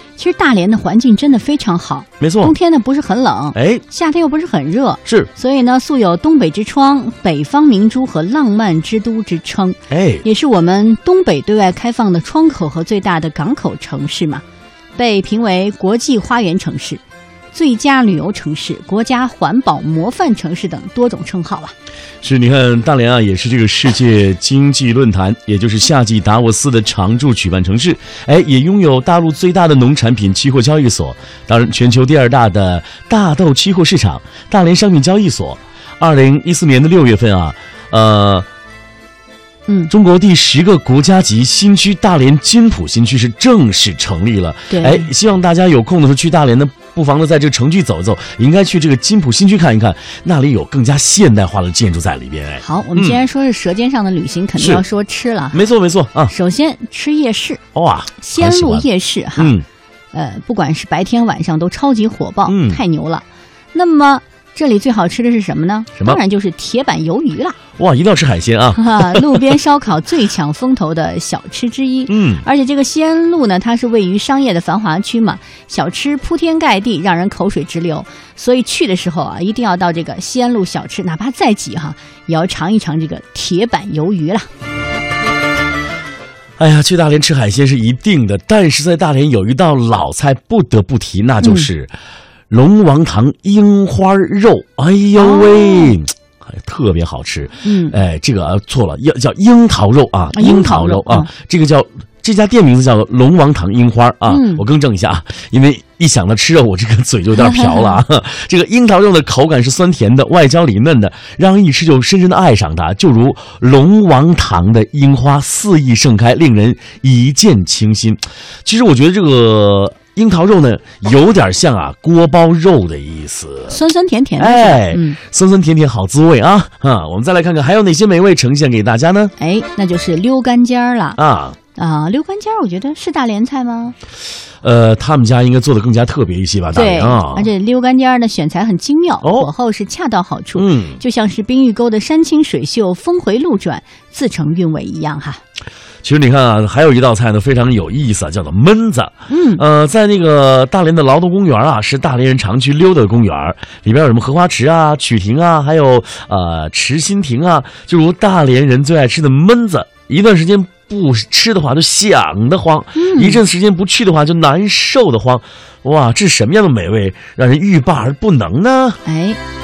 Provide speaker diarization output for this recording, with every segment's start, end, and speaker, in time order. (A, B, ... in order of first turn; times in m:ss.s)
0:00.2-0:14.4 A
0:02.2-0:02.5 B
0:03.5-0:03.8 B
0:09.9-0:10.2 B
0:15.0-0:17.0 A
0:17.5-0:21.7 A
0:22.2-0:38.4 B
0:39.7-0:39.9 A
0:39.9-0:53.2 B
0:44.7-0:45.1 A
0:52.6-0:55.6 A
0:55.5-0:56.3 B
0:56.3-0:57.6 A
0:57.7-0:58.8 B
0:58.2-0:59.5 A
0:59.4-0:59.6 B
1:00.1-1:07.6 A
1:02.5-1:02.8 B
1:07.8-1:09.4 B
1:08.7-1:24.5 A
1:12.1-1:12.4 B
1:26.6-1:31.9 B
1:31.4-1:31.7 A
1:32.5-2:03.8 B
1:35.2-1:35.9 A
1:37.6-1:38.0 A
1:40.3-1:41.3 A
1:44.3-1:44.6 A
1:47.6-1:47.8 A
2:03.7-2:05.2 A
2:04.4-2:09.3 B
2:09.4-2:11.2 A
2:11.2-2:11.6 B
2:11.8-2:14.0 A
2:14.6-2:17.5 B
2:16.7-2:25.4 A
2:19.2-2:19.5 B
2:20.6-2:21.0 B
2:26.0-2:49.0 B
2:29.3-2:29.6 A
2:42.9-2:43.4 A
2:49.0-2:49.4 A